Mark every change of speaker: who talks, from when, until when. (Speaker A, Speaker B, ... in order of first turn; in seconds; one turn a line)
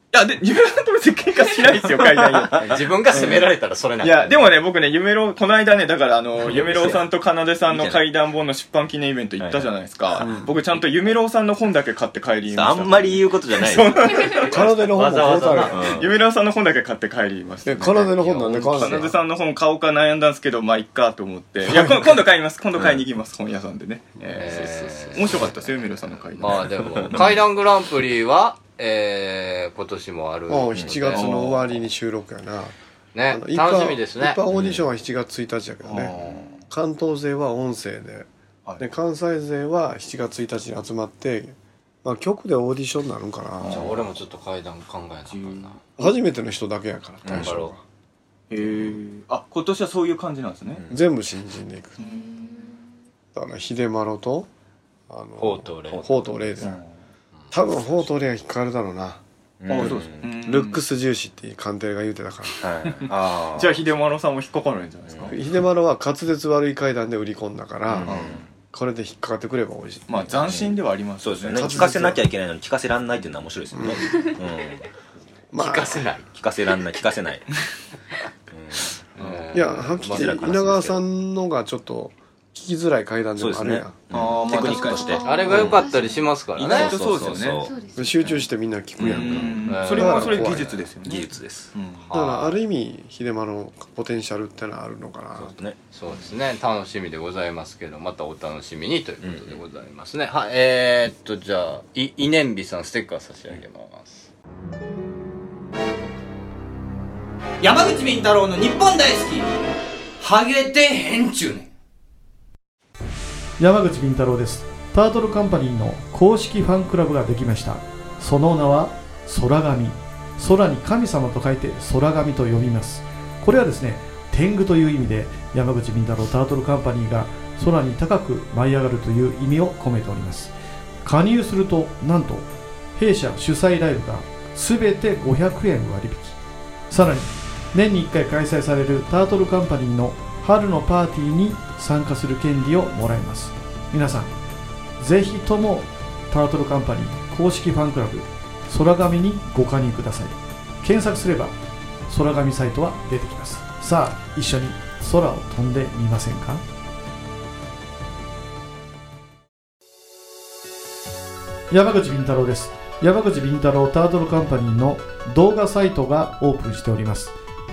Speaker A: 0.1-3.5
Speaker B: 2.6-4.5
Speaker A: 4.0-14.7
Speaker B: 6.5-7.0
Speaker C: 6.6-6.9
Speaker C: 7.7-8.1
Speaker C: 9.4-9.7
Speaker D: 10.2-10.5
Speaker C: 10.2-10.8
Speaker C: 12.5-14.5
Speaker D: 14.5-15.9
Speaker B: 14.8-15.9
Speaker C: 15.7-16.1
Speaker A: 15.8-27.3
Speaker D: 17.6-19.2
Speaker B: 18.2-19.1
Speaker D: 21.7-21.9
Speaker C: 22.8-23.0
Speaker B: 24.3-25.5
Speaker B: 26.4-31.5
Speaker D: 30.5-32.8
Speaker C: 30.8-31.2
Speaker A: 31.1-31.7
Speaker B: 33.1-34.4
Speaker D: 33.3-36.1
Speaker C: 34.5-34.9
Speaker A: 35.8-36.6
Speaker D: 36.7-43.9
Speaker A: 43.6-44.1
Speaker B: 43.7-45.8
Speaker A: 45.3-45.8
Speaker D: 46.0-47.8
Speaker C: 47.3-47.6
Speaker B: 47.3-47.7
Speaker A: 48.5-50.8
Speaker D: 50.9-52.0
Speaker A: 52.0-52.3
Speaker E: 52.0-52.8
Speaker D: 53.4-54.5
Speaker D: 55.1-56.8
Speaker B: 55.4-56.1
Speaker C: 55.9-56.8
Speaker D: 57.5-62.6
Speaker C: 59.6-60.3
Speaker A: 59.7-60.8
Speaker C: 62.6-63.9
Speaker A: 63.0-65.4
Speaker C: 65.1-65.3
Speaker D: 65.3-68.2
Speaker C: 67.9-68.5
Speaker A: 68.1-68.4
Speaker D: 68.7-70.4
Speaker A: 70.1-72.2
Speaker C: 70.4-74.9
Speaker D: 71.5-72.2
Speaker D: 73.7-74.3
Speaker D: 75.5-76.1
Speaker B: 75.6-76.3
Speaker C: 76.3-77.5
Speaker C: 78.5-78.9
Speaker A: 79.2-79.5
Speaker B: 79.2-80.5
Speaker D: 79.5-84.1
Speaker C: 80.0-81.0
Speaker C: 83.4-85.8
Speaker A: 84.1-85.7
Speaker E: 84.5-86.2
Speaker B: 85.2-87.3
Speaker A: 86.6-87.7
Speaker C: 86.6-87.7
Speaker E: 87.6-88.3
Speaker D: 88.0-90.8
Speaker C: 89.0-91.7
Speaker A: 89.0-92.1
Speaker B: 89.7-90.5
Speaker B: 92.0-92.6
Speaker D: 92.1-95.5
Speaker C: 95.4-95.8
Speaker B: 95.9-104.3
Speaker C: 99.2-99.6
Speaker F: 107.6-109.5
Speaker F: 110.2-111.7
Speaker G: 113.6-130.5
Speaker G: 131.0-136.4
Speaker G: 136.9-144.3
Speaker G: 145.0-151.5
Speaker G: 152.1-156.6
Speaker G: 161.7-167.3